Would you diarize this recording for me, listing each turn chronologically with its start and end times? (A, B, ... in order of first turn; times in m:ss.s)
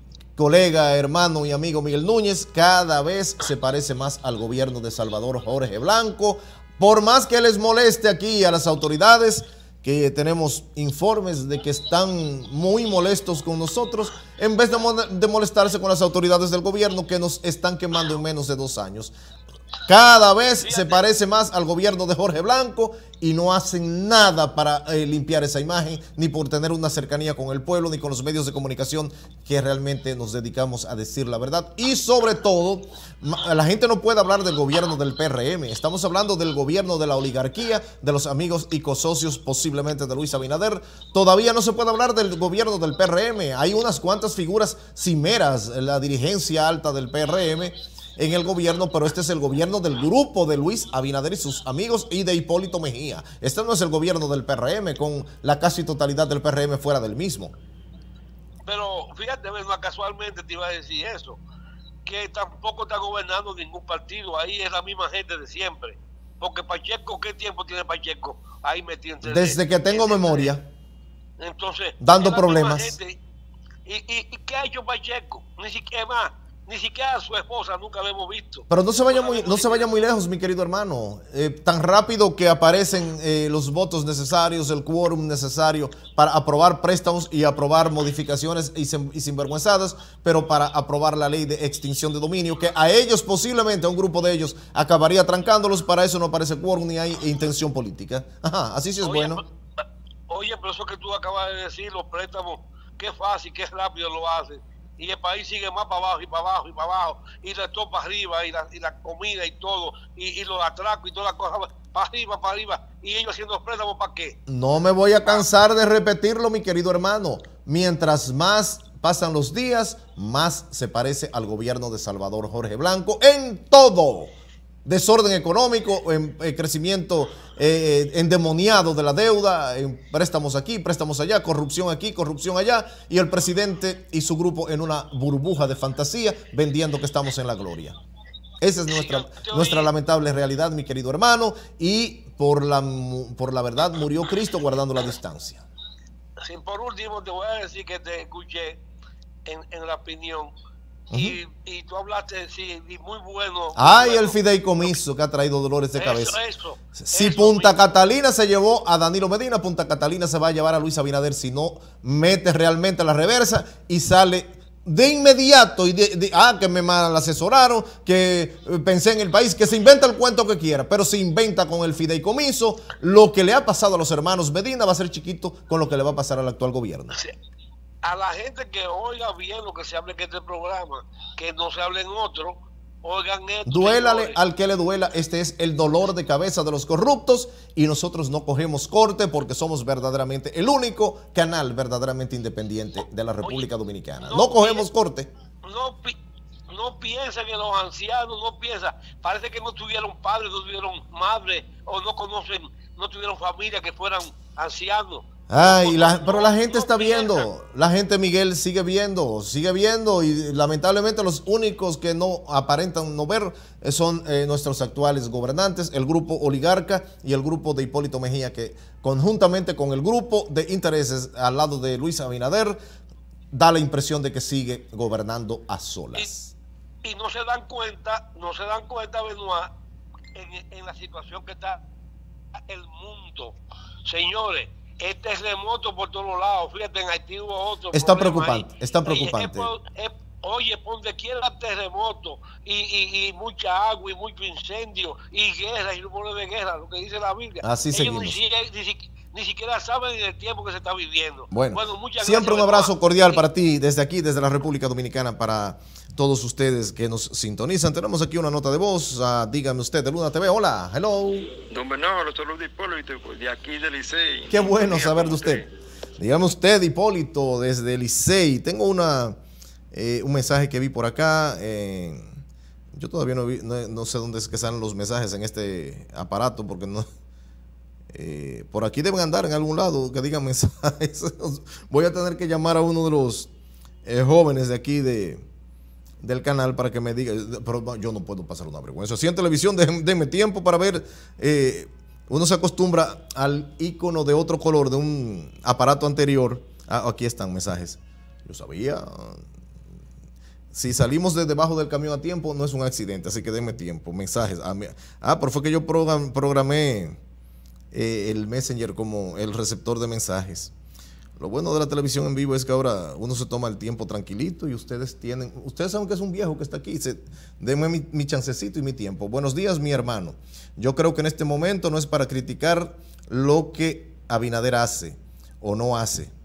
0:00.4-0:19.1 A
0:19.9-0:57.5 A
0:20.6-0:21.0 B
0:58.6-1:01.4 B
1:02.0-1:10.5 B
1:09.2-1:10.6 A
1:11.4-1:13.2 B
1:12.0-1:13.0 A
1:13.9-1:20.0 B
1:18.7-1:39.4 A
1:39.0-1:39.4 B
1:40.3-1:54.4 B
1:54.5-2:04.3 A
2:04.8-2:18.0 A
2:18.6-2:25.6 A
2:18.9-2:19.9 B
2:26.4-2:28.8 B
2:29.4-2:30.5 B
2:31.1-2:31.4 A
2:31.1-2:34.4 B
2:33.8-2:36.4 A
2:36.0-2:37.8 B
2:37.0-2:57.2 A
2:58.0-3:04.4 B
3:03.6-3:15.3 A
3:14.2-3:14.9 B
3:15.6-3:16.2 B
3:16.7-3:27.5 B
3:25.5-3:42.8 A
3:43.5-3:46.5 A
3:47.0-3:49.7 B
3:50.4-3:51.8 B
3:52.7-4:13.4 B
3:57.9-3:59.7 A
4:07.6-4:08.4 A
4:11.5-4:21.5 A
4:21.6-4:25.7 C
4:24.5-4:25.6 A
4:26.2-4:29.4 A
4:29.9-4:32.3 A
4:32.9-4:37.1 A
4:38.1-4:43.5 A
4:44.0-4:45.4 A
4:46.2-4:59.4 A
5:00.7-5:07.2 A
5:07.9-5:10.7 A
5:11.4-5:26.3 A